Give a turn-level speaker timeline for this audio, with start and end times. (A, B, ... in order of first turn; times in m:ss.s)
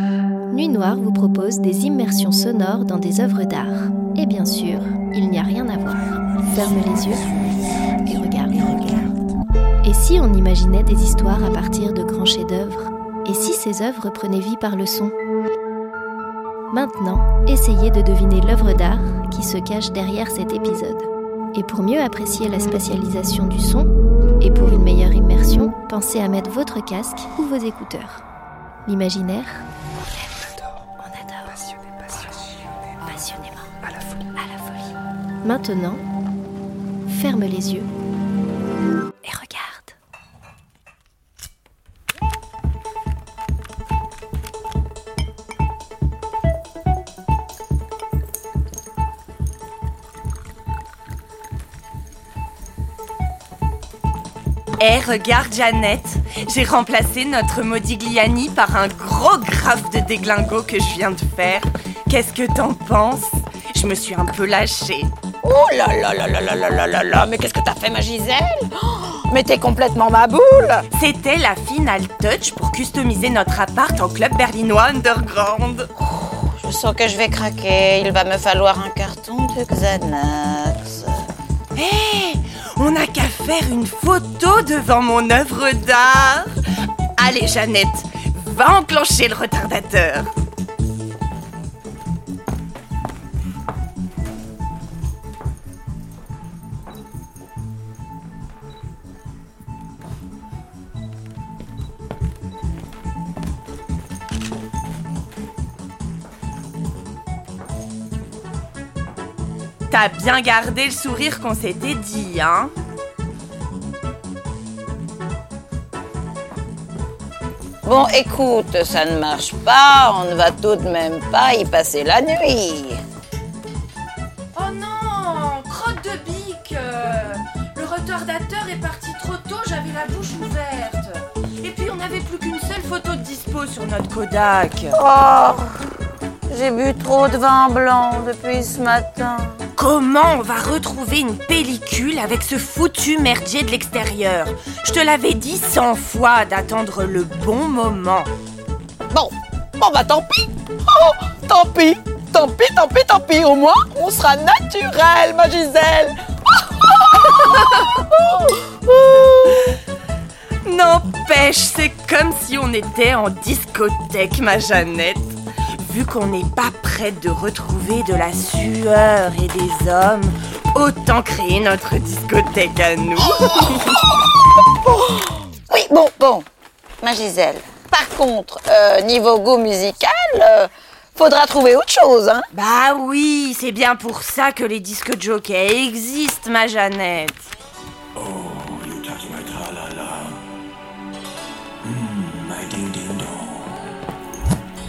0:00.5-0:07.3 A
0:07.0-0:07.6 B
0:08.0-0:08.7 A
0:08.5-0:09.1 B
0:09.8-0:15.1 A
0:16.7-0:23.9 A
0:24.4-0:28.2 A
0:28.9-0:29.7 A
0:30.2-0:32.4 A
0:33.0-0:34.7 A
0:35.4-0:36.0 A
0:37.1-0:37.9 A
0:39.2-0:40.0 A
0:54.8-1:05.1 B
1:05.4-1:10.8 C
1:10.9-1:15.9 B
1:16.0-1:21.2 C
1:21.7-1:26.5 B
1:27.2-1:30.3 B
1:49.9-1:52.7 B
1:57.8-2:03.0 C
2:04.5-2:15.0 B
2:14.9-2:15.8 C
2:16.5-2:19.7 C
2:19.8-2:28.3 B
2:29.1-2:39.7 C
2:40.6-2:54.1 B
2:55.7-2:56.4 C
2:57.0-3:02.5 C
3:02.5-3:07.5 B
3:08.2-3:10.4 D
3:11.8-3:13.7 D